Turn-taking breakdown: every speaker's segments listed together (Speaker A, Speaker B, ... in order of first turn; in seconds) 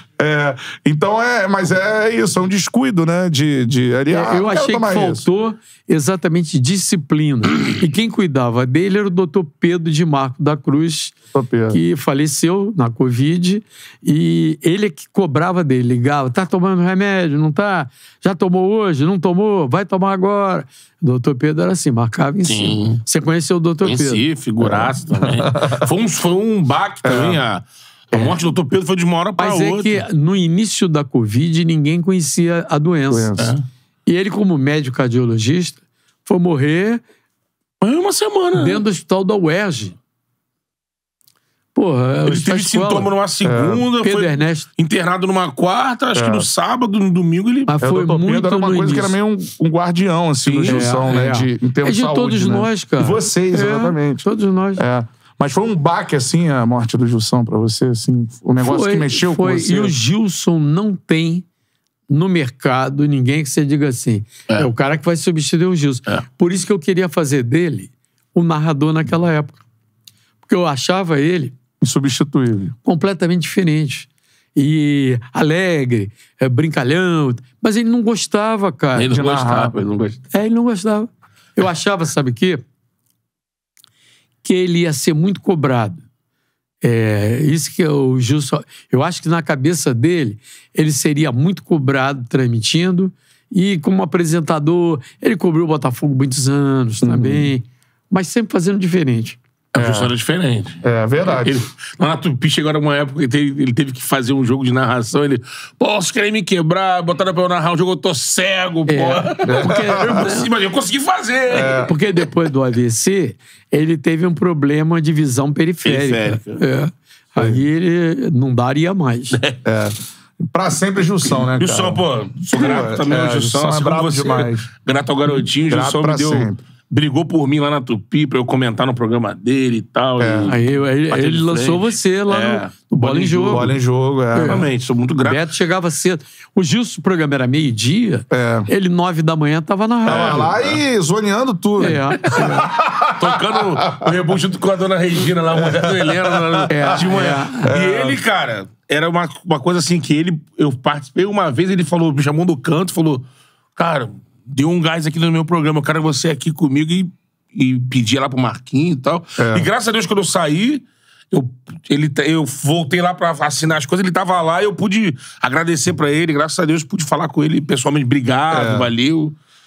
Speaker A: 0.2-5.2, 11.3-11.8, 24.6-25.9, 27.0-27.4, 33.1-33.5, 43.4-43.9, 46.1-46.5, 47.8-54.2, 54.8-60.0, 71.8-72.7, 79.1-79.8, 97.0-97.5, 99.8-100.1, 100.8-101.6, 109.4-110.3, 111.5-111.9, 117.4-117.6, 119.6-124.7, 125.6-126.6, 130.2-130.5, 133.5-134.7, 138.3-138.7, 140.0-144.1, 145.5-148.2, 159.4-159.7, 168.5-168.9
Speaker B: 4.1-11.1, 11.7-24.2, 29.4-33.4, 34.0-37.0, 38.5-40.0, 41.7-43.1, 44.0-44.7, 47.7-49.2, 50.6-54.8, 58.6-61.4, 62.1-69.6, 70.5-71.5, 72.8-79.1, 80.3-82.6, 84.4-86.0, 86.8-99.4, 108.9-110.5, 111.8-119.4, 130.4-133.8, 134.3-134.7, 135.2-140.5, 141.8-142.7, 146.7-147.7
Speaker C: 22.4-23.0, 23.8-30.0, 33.4-33.6, 37.8-38.8, 42.2-47.7, 50.4-51.0, 78.9-80.2, 99.8-111.9, 115.8-116.6, 121.2-133.7, 134.4-135.4, 140.0-140.8, 143.1-169.3